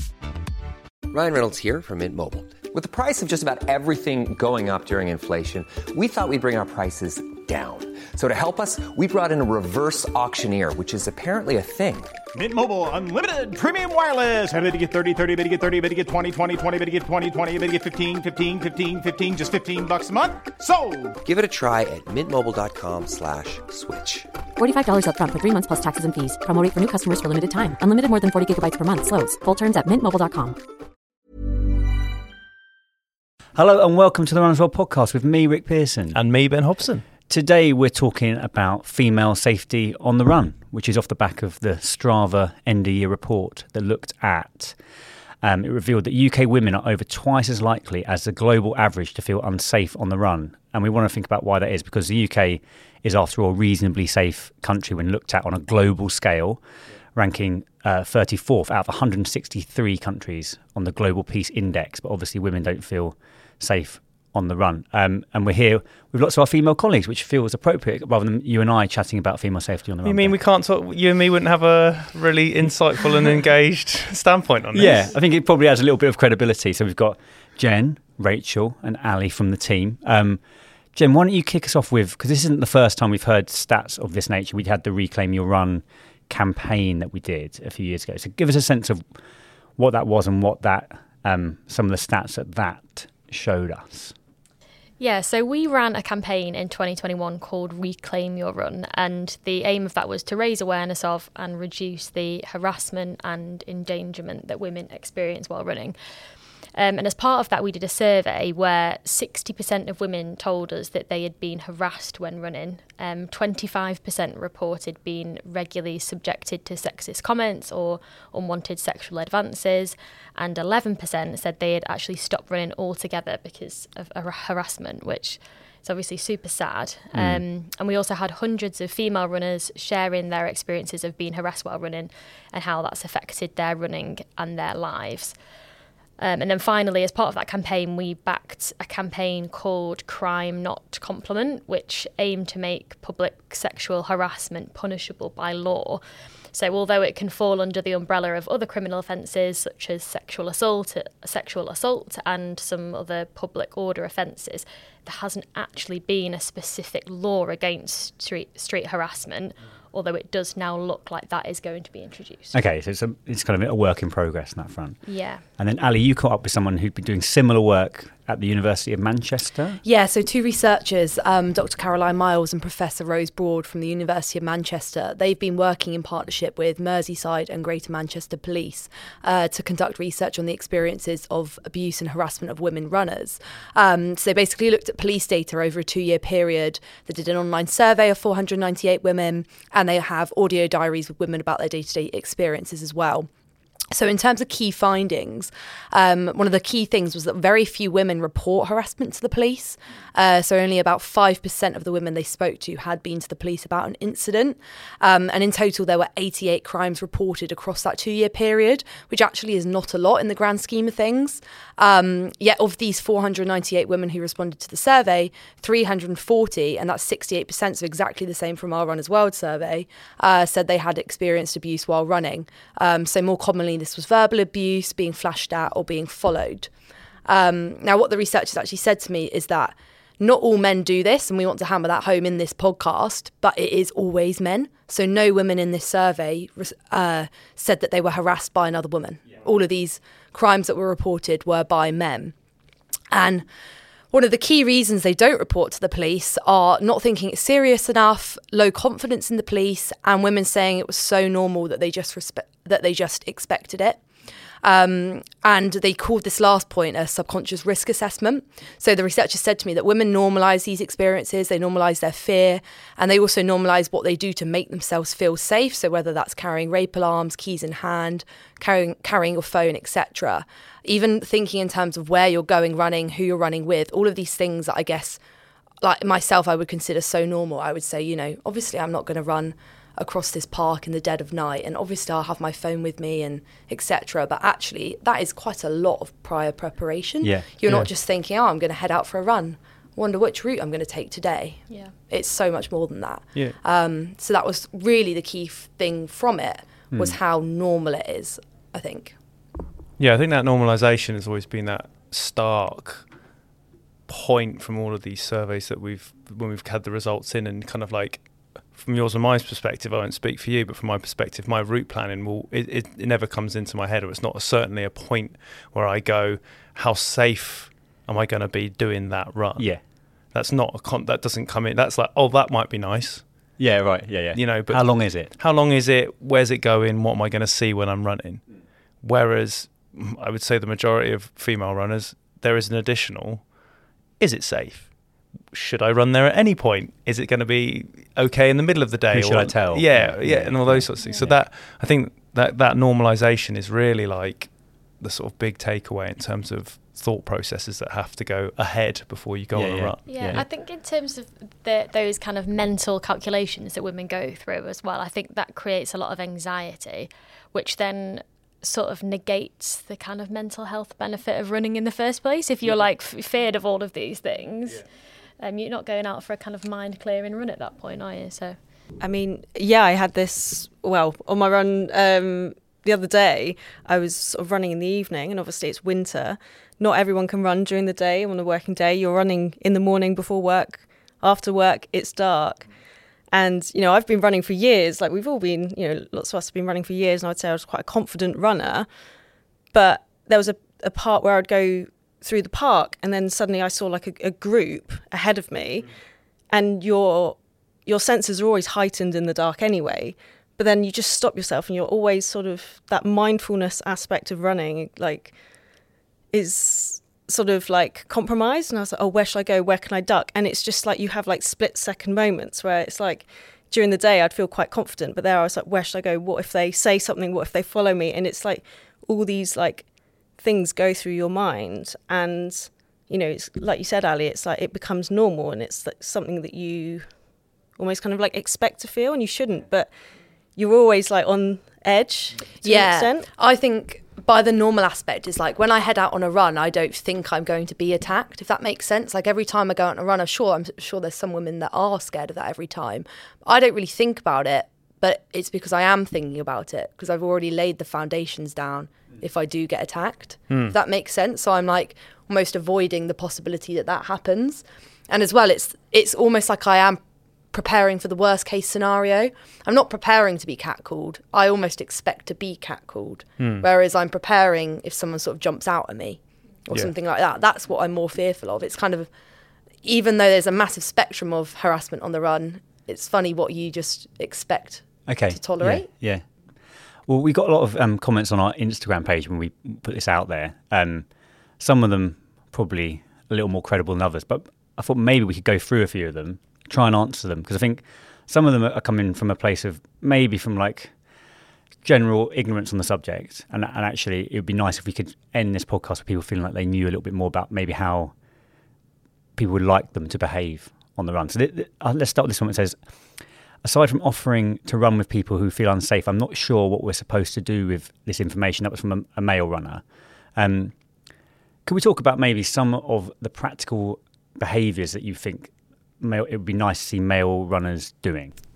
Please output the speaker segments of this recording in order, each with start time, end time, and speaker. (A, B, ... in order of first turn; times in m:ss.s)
0:01.1-0:12.2 A
0:12.3-0:21.1 B
0:21.2-0:24.3 A
0:24.6-0:30.6 C
0:33.6-0:36.2 D
0:36.1-0:37.1 E
0:37.3-0:44.8 D
0:45.4-0:56.6 D
0:57.2-1:10.4 D
1:10.0-1:15.1 E
1:14.7-1:20.4 D
1:20.9-1:29.0 D
1:29.8-1:34.2 D
1:35.0-1:46.0 F
1:46.7-2:15.4 F
2:07.2-2:07.4 D
2:16.2-2:26.0 F
2:26.5-2:42.6 F
2:42.5-2:45.0 D
2:45.0-2:45.4 F
2:45.6-2:49.8 D
2:49.8-3:13.3 G
3:13.9-3:46.7 G
3:47.3-4:02.3 G
4:03.1-4:03.5 G
4:04.1-4:14.0 G
4:14.6-4:35.2 G
4:35.8-4:59.2 G
4:47.2-4:47.5 D
4:56.9-4:57.2 D
5:00.0-5:03.1 E
5:04.1-5:19.7 E
5:20.3-5:23.2 E
5:23.6-5:25.4 D
5:24.4-5:28.4 E
5:29.0-5:33.5 E
5:34.2-5:34.9 E
5:35.5-5:50.4 E
5:39.1-5:41.4 D
5:49.5-5:50.4 D
5:50.1-6:04.8 F
6:05.4-6:08.6 F
6:09.0-6:22.7 H
6:23.3-6:28.9 H
6:29.7-6:35.9 H
6:36.5-6:45.4 H
6:46.3-7:07.2 H
7:07.7-7:09.9 H
7:10.5-7:13.3 H
7:12.6-7:37.0 G
7:30.5-7:30.8 E
7:37.5-7:49.1 G
7:43.4-7:43.7 E
7:49.8-7:55.9 G
7:55.1-7:56.2 D
7:57.1-8:01.1 D
8:01.6-8:11.0 D
8:11.8-8:18.1 D
8:19.4-8:22.8 D
8:23.6-8:29.8 D
8:30.4-8:30.8 D
8:31.7-8:38.3 D